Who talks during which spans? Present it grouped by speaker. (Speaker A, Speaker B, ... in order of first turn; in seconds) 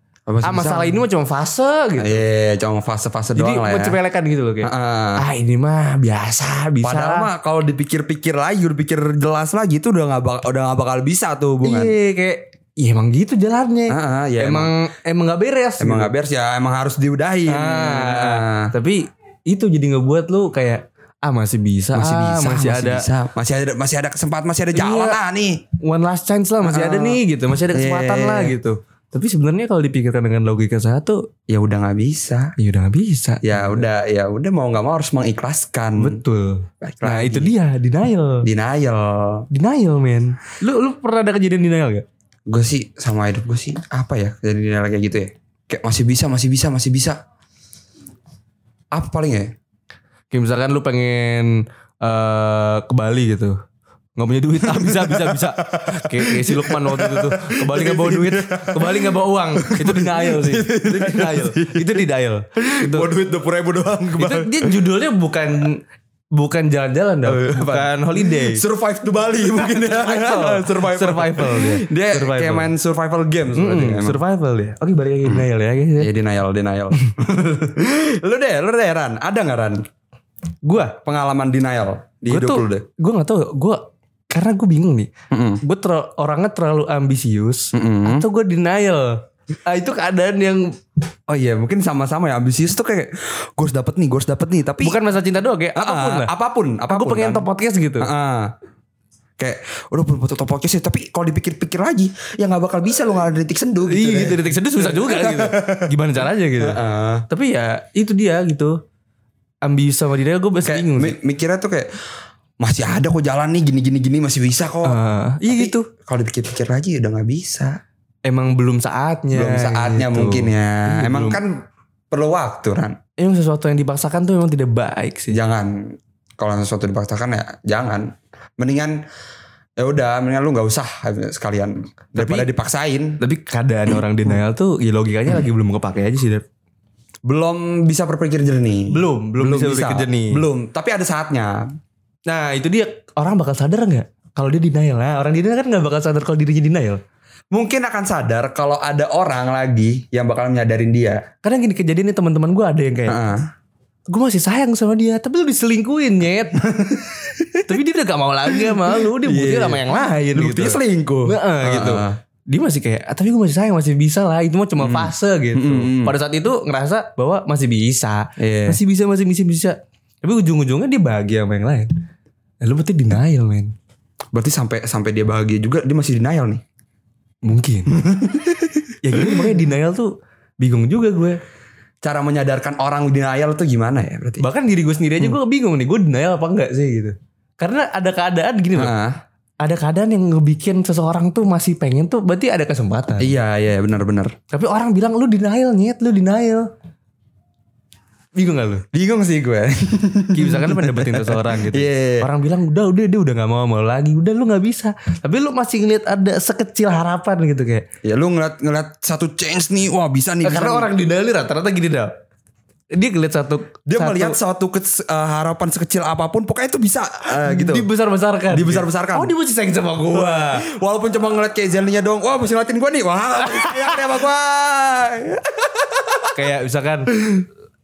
Speaker A: 0.3-1.0, 2.0-4.0, 4.6-5.2, 6.8-11.9, 13.9-14.7, 15.8-18.7, 21.9-25.6, 26.6-27.2, 27.7-28.6, 31.5-32.5, 33.4-36.2, 36.8-37.5, 38.4-39.5, 42.5-47.2, 48.9-49.5, 54.6-61.9, 62.6-64.8, 67.2-74.2, 76.0-79.8, 80.9-82.8, 85.3-85.6, 87.7-88.2, 91.3-95.0, 95.8-97.5, 98.0-98.5, 99.4-106.0, 106.6-107.2, 110.7-111.9, 112.6-117.8, 119.3-123.0, 125.3-129.0, 129.8-133.2, 137.3-141.6, 147.5-151.3, 153.1-153.5, 156.7-157.7, 158.6-162.2, 164.8-166.2, 168.4-168.8, 174.3-176.6, 177.9-179.3, 182.0-184.5, 188.8-189.2, 193.2-194.4, 198.9-202.3, 208.1-210.9, 213.9-217.9, 218.5-219.3, 220.1-226.4
Speaker B: 0.4-2.2, 3.4-7.3, 11.6-16.1, 17.5-23.1, 24.7-25.2, 25.8-31.3, 32.6-33.9, 36.0-38.5, 39.5-42.0, 50.3-53.5, 54.2-63.1, 64.2-65.8, 66.3-68.6, 69.5-72.7, 73.5-76.1, 80.7-81.0, 82.3-85.1, 85.6-90.8, 94.8-96.3, 96.9-98.1, 103.9-108.8, 109.6-111.2, 114.8-115.9, 118.3-121.4, 123.2-125.4, 132.2-132.5, 133.2-136.4, 138.9-140.4, 142.3-147.0, 151.4-153.2, 154.1-156.6, 157.7-171.9, 172.6-173.7, 177.4-177.9, 179.0-181.4, 184.4-188.9, 189.6-193.3, 194.5-196.7, 198.3-198.8, 200.3-207.8, 210.4-212.1, 212.9-214.4, 217.4-220.7, 223.5-224.0, 226.3-227.5